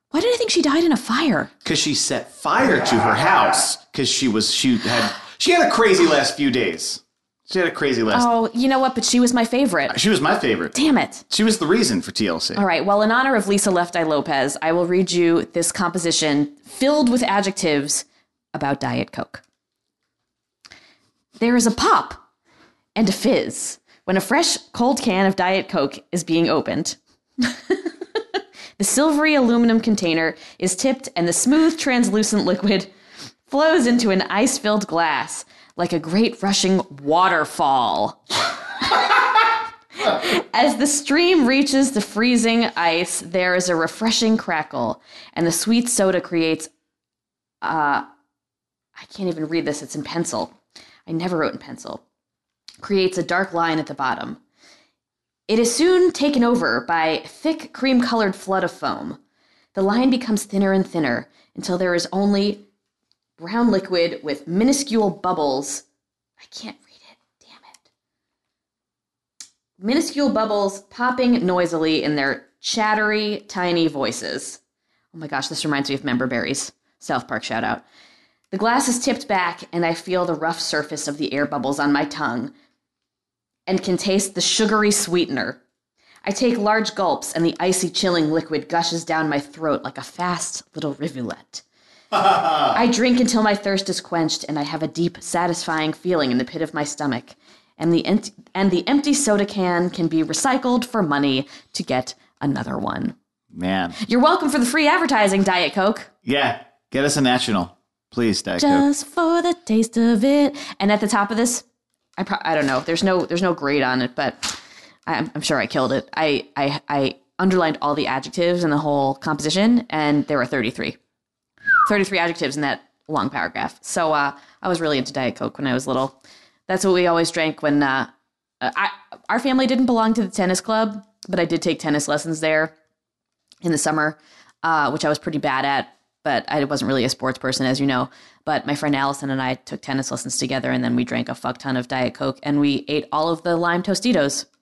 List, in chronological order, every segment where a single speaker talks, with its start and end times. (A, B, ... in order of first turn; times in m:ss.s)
0:00.1-0:01.5 A
0:01.6-0:08.3 B
0:08.1-0:10.0 A
0:09.9-0:10.8 B
0:10.7-0:11.2 A
0:11.3-0:12.6 B
0:12.6-0:19.4 A
0:21.4-0:22.2 A
0:23.0-0:27.9 A
0:28.8-0:32.9 A
0:33.5-0:38.2 A
0:40.0-0:46.7 A
0:47.6-0:48.1 A
0:49.0-0:50.5 A
0:51.1-0:52.0 A
0:52.8-0:54.4 A
0:55.5-0:59.2 A
0:59.8-1:02.6 A
1:03.4-1:05.8 A
1:06.4-1:07.8 A
1:09.8-1:14.6 A
1:15.1-1:17.8 A
1:18.5-1:22.5 A
1:23.7-1:25.6 A
1:26.2-1:31.6 A
1:32.1-1:32.8 B
1:32.7-1:43.2 A
1:43.5-1:44.0 B
1:44.0-1:46.1 A
1:46.2-1:48.9 B
1:48.6-1:51.6 A
1:52.2-2:01.0 A
2:01.8-2:06.2 A
2:06.7-2:12.7 A
2:13.6-2:24.5 A